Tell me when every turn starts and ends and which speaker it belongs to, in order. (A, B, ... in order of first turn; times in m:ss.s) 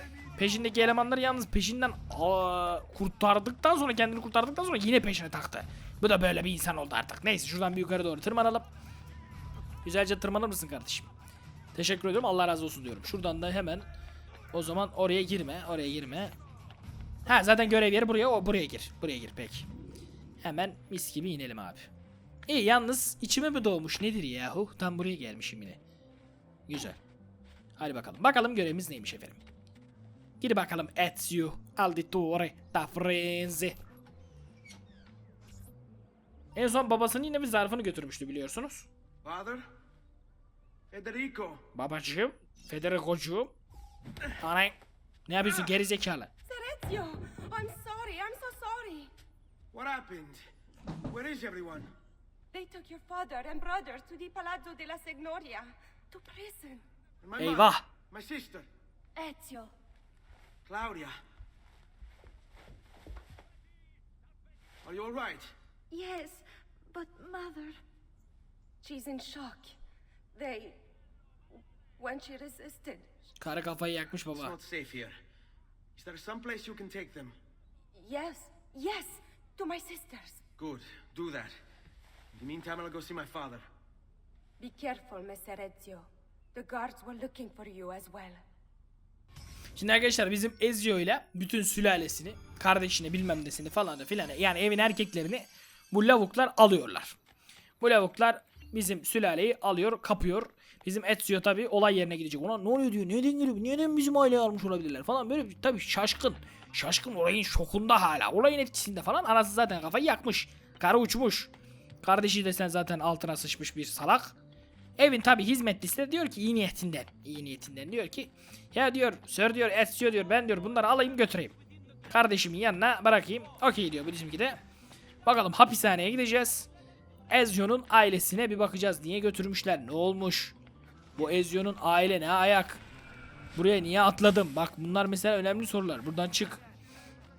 0:00.4-0:08.7 A
0:09.8-0:11.1 A
0:11.8-0:13.9 A
0:14.5-0:16.4 A
0:17.3-0:19.7 A
0:20.4-0:21.9 A
0:22.5-0:25.8 A
0:26.7-0:27.0 A
0:27.8-0:29.4 A
0:30.4-0:33.8 A
0:36.6-0:38.9 A
0:39.2-0:39.7 B
0:40.9-0:41.7 B
0:41.8-0:43.6 A
0:44.4-0:44.8 A
0:45.3-0:46.3 A
0:46.5-0:49.1 C
0:49.7-0:50.4 B
0:51.1-0:51.9 B
0:52.5-0:56.8 C
0:57.2-0:58.7 B
0:57.4-0:57.9 A
0:59.2-0:59.7 C
1:00.6-1:01.1 B
1:04.8-1:05.5 B
1:05.9-1:07.8 C
1:08.8-1:09.8 C
1:10.4-1:10.8 C
1:12.0-1:13.1 C
1:13.4-1:14.6 A
1:14.3-1:15.2 B
1:16.0-1:17.4 B
1:18.0-1:20.4 C
1:20.6-1:21.5 B
1:22.3-1:23.6 B
1:24.6-1:28.4 C
1:29.8-1:37.2 A
1:37.8-1:51.5 A
1:52.0-1:54.4 A
1:55.0-2:01.6 A
2:02.1-2:04.6 A
2:05.2-2:06.7 A
2:07.3-2:10.6 A
2:11.2-2:12.8 A
2:13.6-2:16.6 A